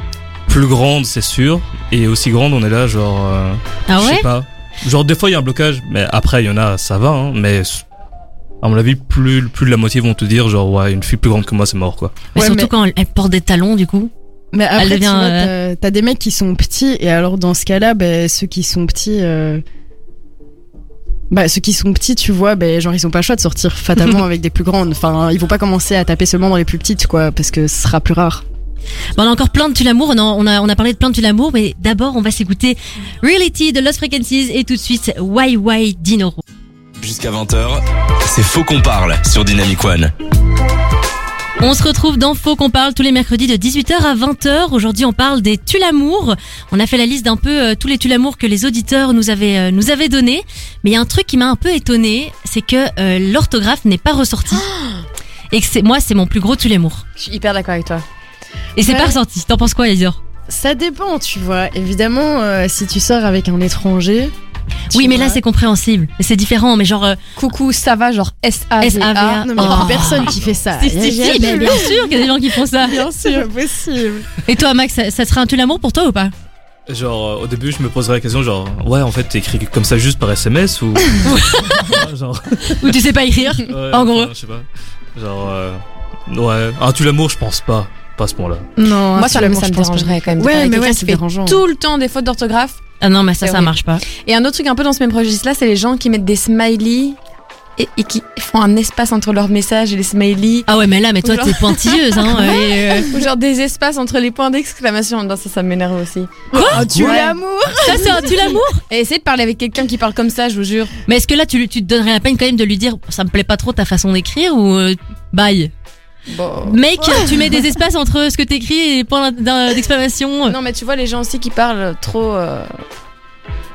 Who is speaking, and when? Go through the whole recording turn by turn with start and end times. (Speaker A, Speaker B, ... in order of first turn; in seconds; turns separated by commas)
Speaker A: 0.5-7.8, Speaker B: 3.9-4.3, Speaker A: 8.6-12.3, Speaker B: 12.3-14.1, Speaker C: 12.3-12.7, Speaker C: 14.5-19.6, Speaker B: 14.8-15.5, Speaker C: 21.3-28.4, Speaker B: 29.2-36.4, Speaker D: 37.0-40.1, Speaker B: 41.6-54.6, Speaker E: 54.5-55.0, Speaker B: 55.5-57.0, Speaker E: 57.2-58.0, Speaker B: 58.8-60.2, Speaker C: 58.8-59.2, Speaker C: 60.5-64.3, Speaker C: 64.9-65.4, Speaker B: 64.9-67.2, Speaker E: 67.4-70.2, Speaker B: 68.8-73.1, Speaker C: 69.4-74.3, Speaker A: 70.0-70.7, Speaker E: 71.0-71.9, Speaker B: 74.5-76.3, Speaker A: 76.9-83.0, Speaker B: 81.2-82.0, Speaker B: 82.8-84.3, Speaker A: 83.7-88.7, Speaker C: 88.8-91.6, Speaker E: 89.2-92.8, Speaker B: 93.0-94.0, Speaker E: 93.4-97.2, Speaker E: 97.8-100.7, Speaker B: 100.7-103.2, Speaker E: 101.2-107.3, Speaker B: 106.5-107.2, Speaker C: 106.7-108.6, Speaker B: 107.8-108.8, Speaker E: 108.9-110.9, Speaker B: 111.1-115.7, Speaker E: 116.3-117.2, Speaker B: 116.7-120.6, Speaker E: 120.5-122.7